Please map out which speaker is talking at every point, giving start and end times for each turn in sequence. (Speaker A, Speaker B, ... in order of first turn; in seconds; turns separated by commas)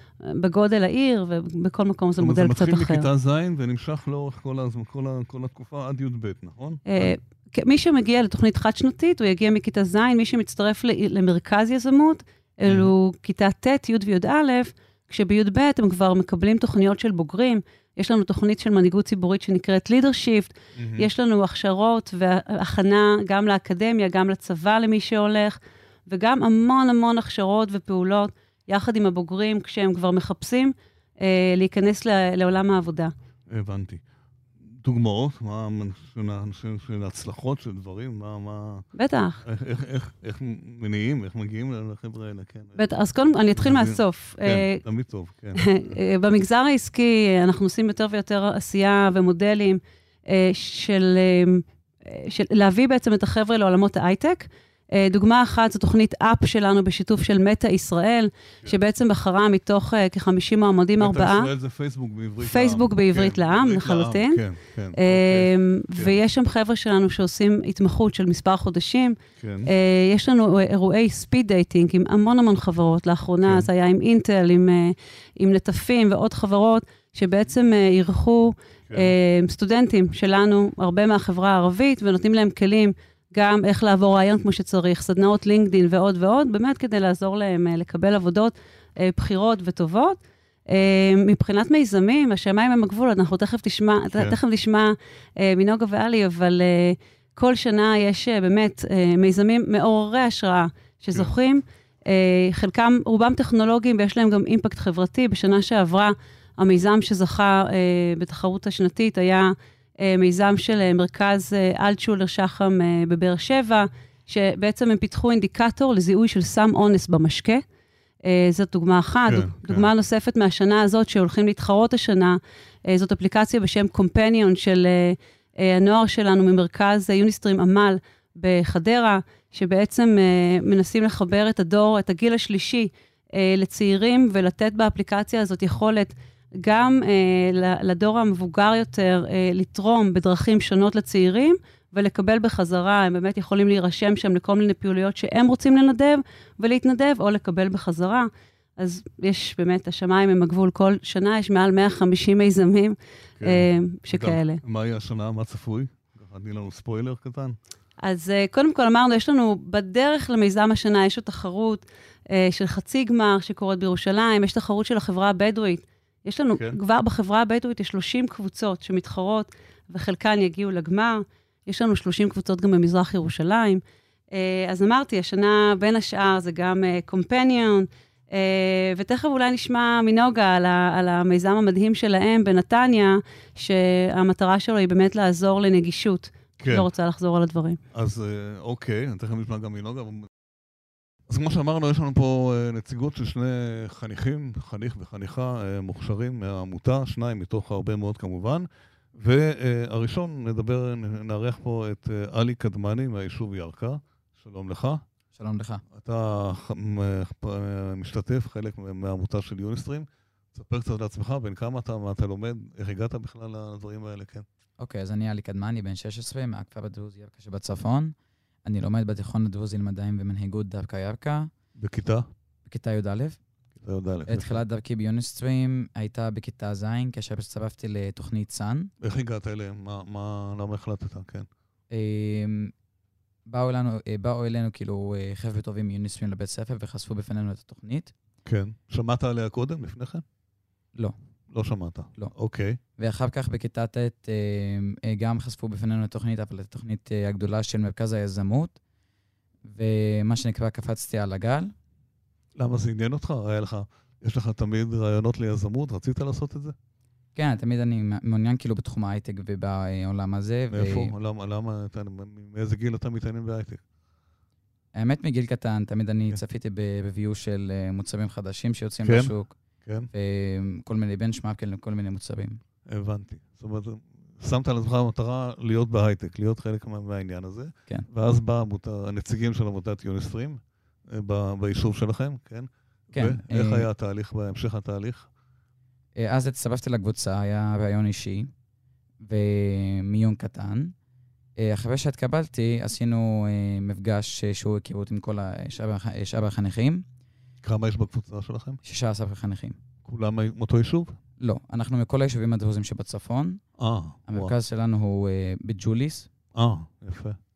Speaker A: 0.2-3.1, Speaker B: 2.2-7.1, Speaker A: 6.9-33.1, Speaker B: 12.7-12.9, Speaker B: 20.8-21.1, Speaker B: 33.5-34.0, Speaker B: 34.8-38.9, Speaker A: 39.0-39.4, Speaker B: 39.4-42.8, Speaker A: 42.8-44.8, Speaker B: 43.5-45.7, Speaker A: 45.5-61.5, Speaker B: 61.0-66.2, Speaker A: 62.4-64.4, Speaker A: 65.0-117.6, Speaker B: 69.4-69.7, Speaker A: 118.2-154.6, Speaker B: 119.3-119.9, Speaker B: 153.4-157.6, Speaker A: 158.0-187.8, Speaker B: 186.6-186.9, Speaker B: 187.9-190.3, Speaker B: 191.3-205.0, Speaker C: 205.3-205.8, Speaker B: 205.9-214.4, Speaker C: 214.8-221.5, Speaker B: 221.8-222.2, Speaker C: 222.7-223.4, Speaker B: 223.8-224.6, Speaker C: 224.3-228.9, Speaker B: 229.0-231.5, Speaker C: 231.9-232.7, Speaker C: 233.5-238.1, Speaker B: 238.4-240.2, Speaker B: 241.5-242.8, Speaker C: 243.0-248.8, Speaker C: 249.7-251.7, Speaker B: 252.6-256.7, Speaker C: 257.3-261.1, Speaker B: 260.7-263.8, Speaker C: 264.9-269.5, Speaker B: 269.0-269.3, Speaker B: 269.8-270.1, Speaker C: 270.1-272.6, Speaker B: 272.9-285.3, Speaker C: 283.1-283.9, Speaker C: 286.1-288.5, Speaker C: 289.2-290.9, Speaker C: 291.6-297.0, Speaker B: 297.6-298.8, Speaker C: 298.8-299.8, Speaker B: 300.0-301.1, Speaker C: 301.4-303.6, Speaker B: 303.8-304.5, Speaker C: 304.3-306.3, Speaker B: 306.5-307.4